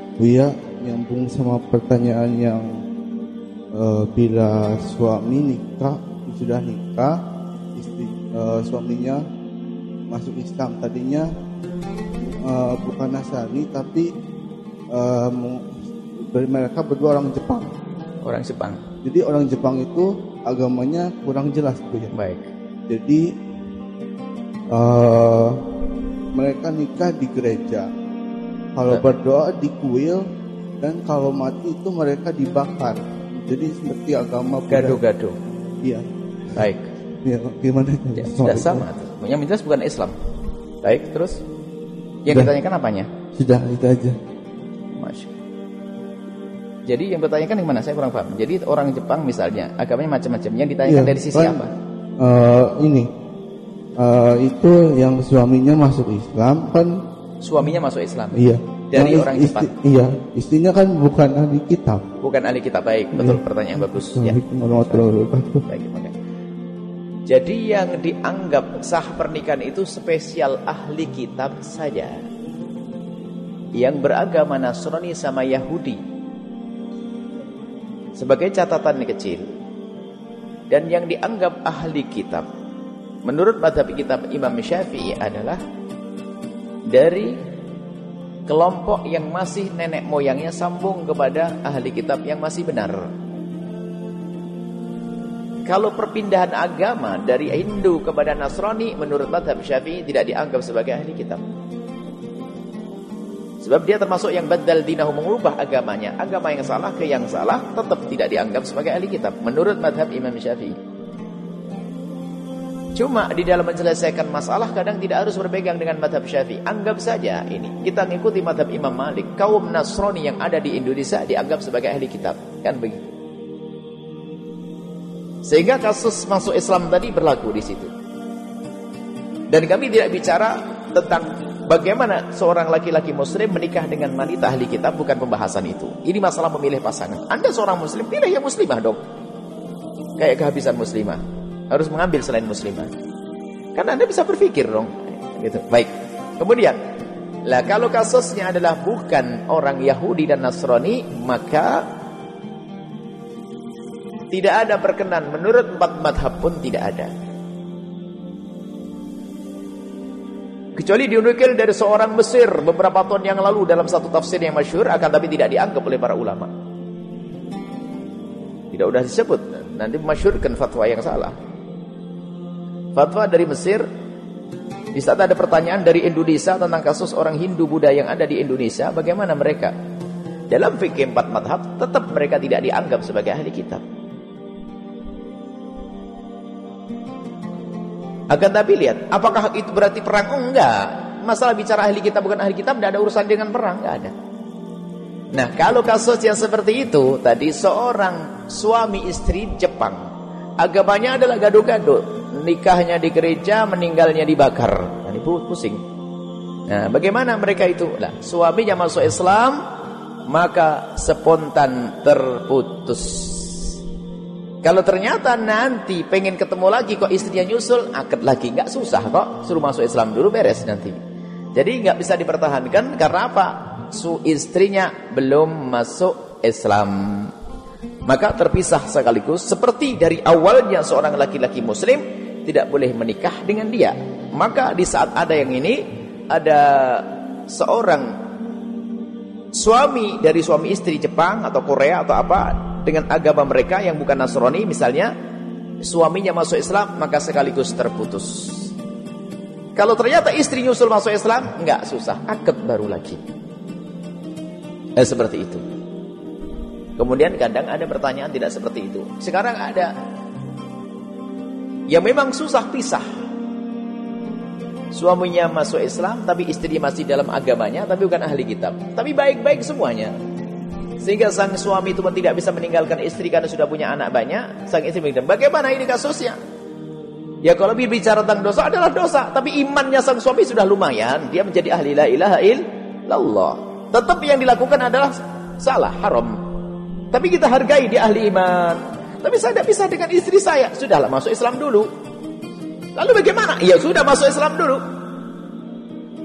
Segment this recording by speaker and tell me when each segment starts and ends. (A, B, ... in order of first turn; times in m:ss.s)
0:00.2-0:02.8 A
0:03.7-0:07.2 A
0:07.8-0:09.2 A
0:10.1-0:11.3 A
0:12.4-0:14.1 A
0:14.9-0:17.8 A
0:18.2-0:18.8 B
0:19.0-0:22.1 A
0:22.1-0:22.4 B
0:22.9-0:23.2 A
0:24.7-0:25.6 A
0:26.3-0:27.9 A
0:28.8-0:30.2 A
0:30.8-0:35.0 A
0:34.7-0:35.4 B
0:36.5-0:36.9 B
0:37.2-0:38.8 A
0:38.2-0:40.1 B
0:40.8-0:41.4 B
0:42.2-0:43.1 B
0:42.3-0:42.5 A
0:43.3-0:44.2 A
0:45.0-0:45.3 B
0:46.9-0:51.7 B
0:50.8-0:53.1 A
0:54.0-0:57.0 A
0:57.4-0:59.7 B
0:58.3-1:02.1 A
1:02.2-1:05.1 B
1:03.1-1:05.6 A
1:05.6-1:06.1 B
1:07.3-1:12.2 B
1:13.8-1:16.0 B
1:18.2-1:19.4 B
1:20.7-1:22.4 B
1:23.2-1:25.6 B
1:26.9-1:27.4 B
1:28.5-1:33.0 B
1:35.7-1:41.4 B
1:43.6-1:50.8 B
1:52.9-2:03.1 B
2:05.4-2:07.9 B
2:09.5-2:19.0 B
2:20.2-2:22.9 B
2:23.7-2:26.8 B
2:27.5-2:31.8 B
2:34.3-2:37.1 B
2:40.8-2:46.5 B
2:48.7-2:51.3 B
2:52.9-2:53.8 B
2:54.9-2:59.7 B
3:00.5-3:03.8 B
3:08.3-3:14.1 B
3:15.3-3:20.1 B
3:20.6-3:25.8 B
3:26.7-3:29.6 B
3:30.3-3:33.8 B
3:34.6-3:41.0 B
3:41.5-3:47.3 B
3:48.0-3:58.1 B
3:59.5-4:05.1 B
4:05.8-4:08.7 B
4:09.8-4:13.2 B
4:15.0-4:15.6 B
4:17.0-4:19.9 B
4:21.9-4:23.0 B
4:24.9-4:30.1 B
4:31.0-4:36.4 B
4:37.4-4:46.4 B
4:47.1-4:51.9 B
4:53.0-4:54.8 B